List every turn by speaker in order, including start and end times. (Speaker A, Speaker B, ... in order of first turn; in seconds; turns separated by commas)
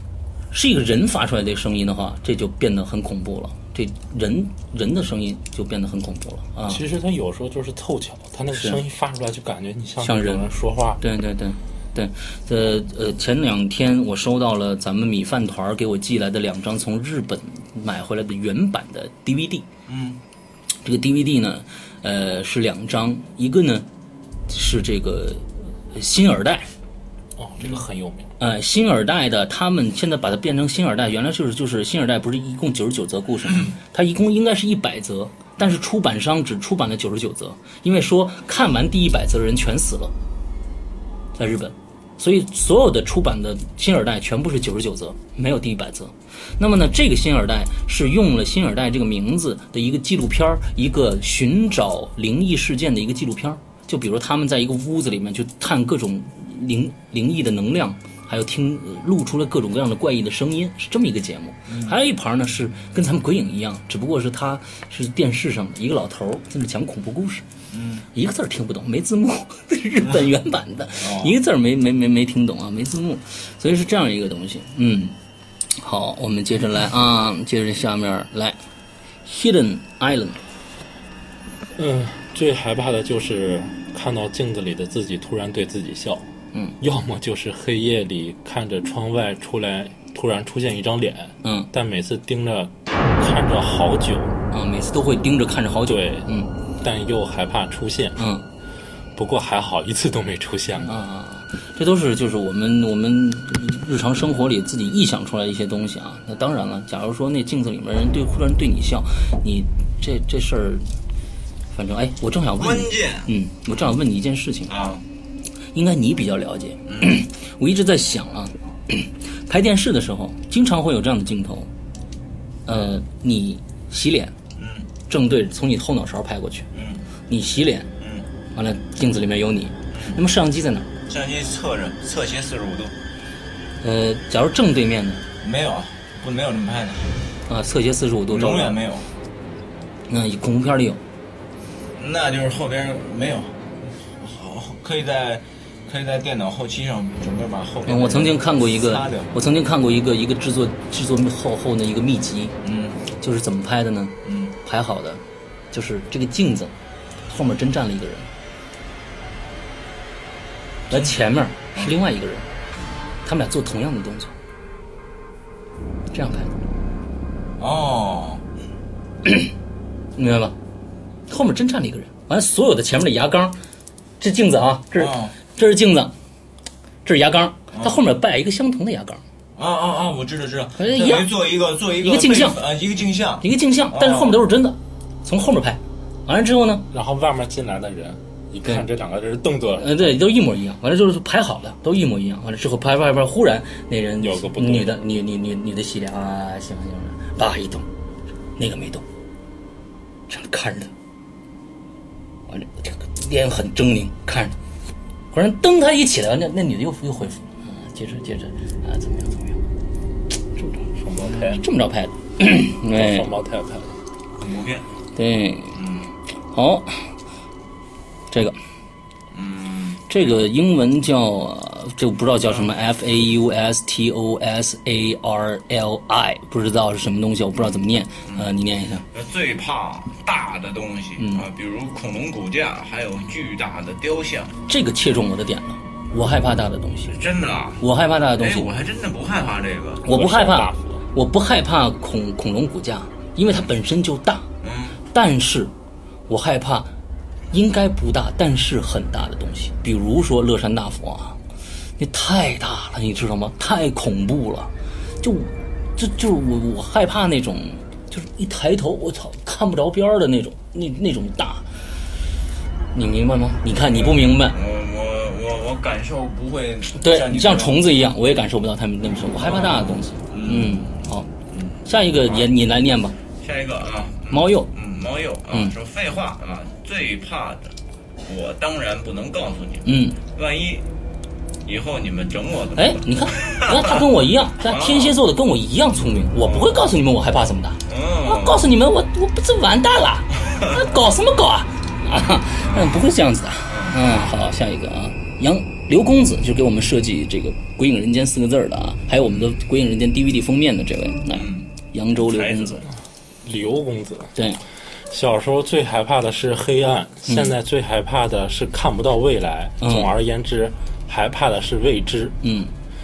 Speaker A: 0.5-6.8, Speaker B: 6.7-11.0, Speaker A: 8.5-8.8, Speaker A: 10.0-10.5, Speaker A: 11.0-19.7, Speaker C: 19.9-20.2, Speaker A: 20.8-23.9, Speaker A: 24.5-26.7, Speaker B: 27.4-28.3, Speaker A: 28.4-40.1, Speaker A: 41.4-67.5, Speaker C: 61.7-62.0, Speaker C: 67.7-68.1, Speaker A: 68.1-75.2, Speaker C: 70.0-70.3, Speaker C: 71.0-71.4, Speaker A: 75.8-78.6, Speaker A: 79.2-80.4, Speaker B: 81.8-86.3, Speaker B: 86.8-94.4, Speaker A: 91.4-91.7, Speaker A: 94.5-96.5, Speaker B: 95.9-98.2, Speaker A: 98.2-98.5, Speaker B: 99.2-101.0, Speaker A: 100.8-110.9, Speaker A: 111.7-114.7, Speaker C: 112.6-113.3, Speaker C: 114.7-115.0, Speaker A: 115.7-121.7, Speaker C: 116.9-117.2, Speaker A: 122.7-124.3, Speaker C: 124.5-124.9, Speaker A: 125.1-126.7, Speaker C: 126.7-127.0, Speaker A: 127.3-127.9, Speaker C: 128.0-128.3, Speaker A: 128.5-130.9, Speaker C: 129.9-130.2, Speaker C: 131.1-132.9, Speaker A: 133.8-135.2, Speaker C: 135.4-137.2, Speaker A: 137.5-138.8, Speaker C: 138.3-139.1, Speaker A: 140.1-141.0, Speaker C: 142.0-149.3, Speaker A: 147.9-152.6, Speaker C: 152.6-153.1, Speaker A: 153.2-155.2, Speaker C: 154.2-154.6, Speaker A: 155.7-156.7, Speaker A: 157.3-158.3, Speaker C: 160.9-161.9, Speaker A: 160.9-162.5, Speaker A: 163.2-164.3, Speaker A: 166.1-166.5, Speaker C: 167.6-168.4, Speaker A: 170.2-170.6, Speaker A: 171.3-173.6, Speaker A: 174.2-176.1, Speaker C: 175.0-175.4, Speaker A: 177.1-179.2, Speaker C: 177.7-178.0, Speaker C: 179.6-184.4, Speaker A: 180.8-181.3, Speaker A: 182.0-182.6, Speaker A: 183.4-186.9, Speaker B: 186.9-190.2, Speaker A: 189.8-197.9, Speaker B: 194.2-195.0, Speaker A: 198.6-199.0, Speaker A: 200.3-200.9, Speaker A: 202.5-204.6, Speaker A: 205.3-209.6, Speaker A: 210.6-213.3, Speaker B: 210.9-211.6, Speaker B: 212.9-214.0, Speaker C: 214.4-214.9, Speaker A: 215.2-215.8, Speaker C: 215.7-216.1, Speaker A: 216.5-217.1, Speaker A: 218.3-218.6, Speaker C: 219.3-220.1, Speaker A: 220.1-229.1, Speaker C: 228.3-228.5, Speaker C: 229.1-234.6, Speaker A: 231.2-231.4, Speaker A: 234.7-237.1, Speaker C: 237.1-237.8, Speaker A: 237.8-238.7, Speaker C: 238.4-240.1, Speaker B: 240.1-241.1, Speaker A: 240.1-244.4, Speaker C: 244.6-245.0, Speaker A: 245.1-245.7, Speaker A: 246.3-246.9, Speaker A: 247.5-251.4, Speaker A: 252.0-261.6, Speaker A: 262.9-264.6, Speaker C: 263.8-267.9, Speaker A: 266.9-271.3, Speaker C: 269.4-272.5, Speaker A: 271.8-273.2, Speaker C: 273.4-280.9, Speaker A: 274.3-274.7, Speaker A: 279.8-280.2, Speaker C: 281.6-284.0, Speaker A: 282.8-302.8, Speaker C: 284.6-285.2, Speaker C: 286.4-286.9, Speaker C: 287.9-288.7, Speaker C: 290.4-290.9, Speaker C: 292.6-293.0, Speaker C: 293.7-294.0, Speaker C: 299.2-299.6, Speaker C: 301.3-302.9, Speaker B: 303.4-304.4, Speaker A: 304.4-304.6, Speaker B: 305.1-312.4, Speaker A: 307.3-307.5, Speaker A: 309.8-310.1, Speaker A: 312.4-312.7